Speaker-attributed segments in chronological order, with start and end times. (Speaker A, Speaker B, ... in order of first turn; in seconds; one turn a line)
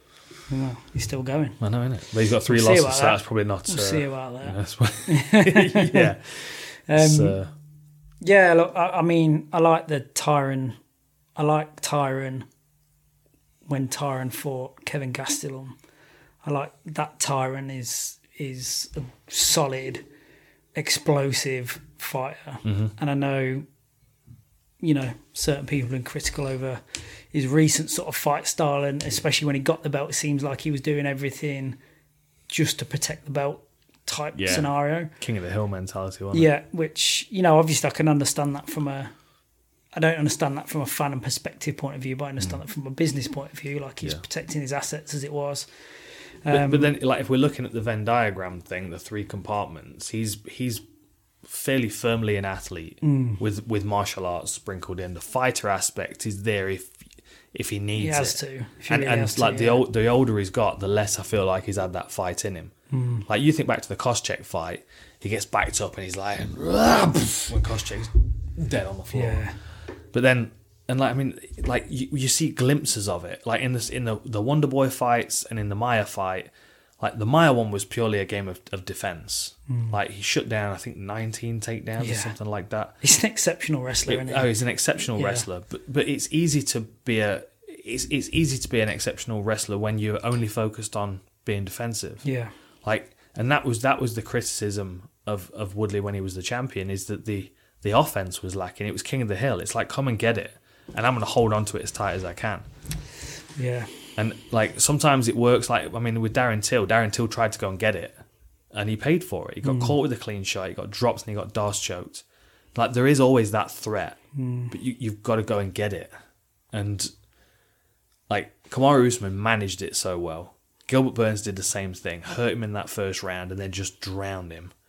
Speaker A: 0.5-1.6
Speaker B: 1.6-7.5
Speaker A: 2.5-7.4
Speaker A: 8.2-10.8
Speaker A: 11.4-12.5
Speaker A: 13.7-15.8
Speaker A: 16.4-20.0
Speaker A: 20.8-23.7
Speaker B: 22.6-22.9
Speaker A: 24.8-31.8
Speaker A: 32.5-35.1
Speaker B: 34.4-36.5
Speaker A: 36.3-39.1
Speaker A: 40.0-45.7
Speaker A: 46.5-46.9
Speaker B: 46.5-50.8
Speaker B: 51.5-56.9
Speaker A: 53.0-53.4
Speaker B: 57.5-62.7
Speaker A: 58.0-59.9
Speaker A: 62.9-63.3
Speaker B: 63.3-69.4
Speaker A: 69.1-69.6
Speaker B: 70.1-83.0
Speaker A: 79.7-80.0
Speaker A: 82.0-82.3
Speaker A: 83.0-84.5
Speaker B: 84.1-92.2
Speaker A: 85.2-85.5
Speaker A: 92.2-92.5
Speaker B: 92.8-102.7
Speaker A: 103.6-103.9
Speaker B: 104.2-108.2
Speaker B: 108.7-112.2
Speaker A: 109.6-110.0
Speaker B: 112.8-114.2
Speaker A: 114.3-114.7
Speaker B: 114.7-116.1
Speaker B: 116.7-117.1
Speaker B: 118.3-124.7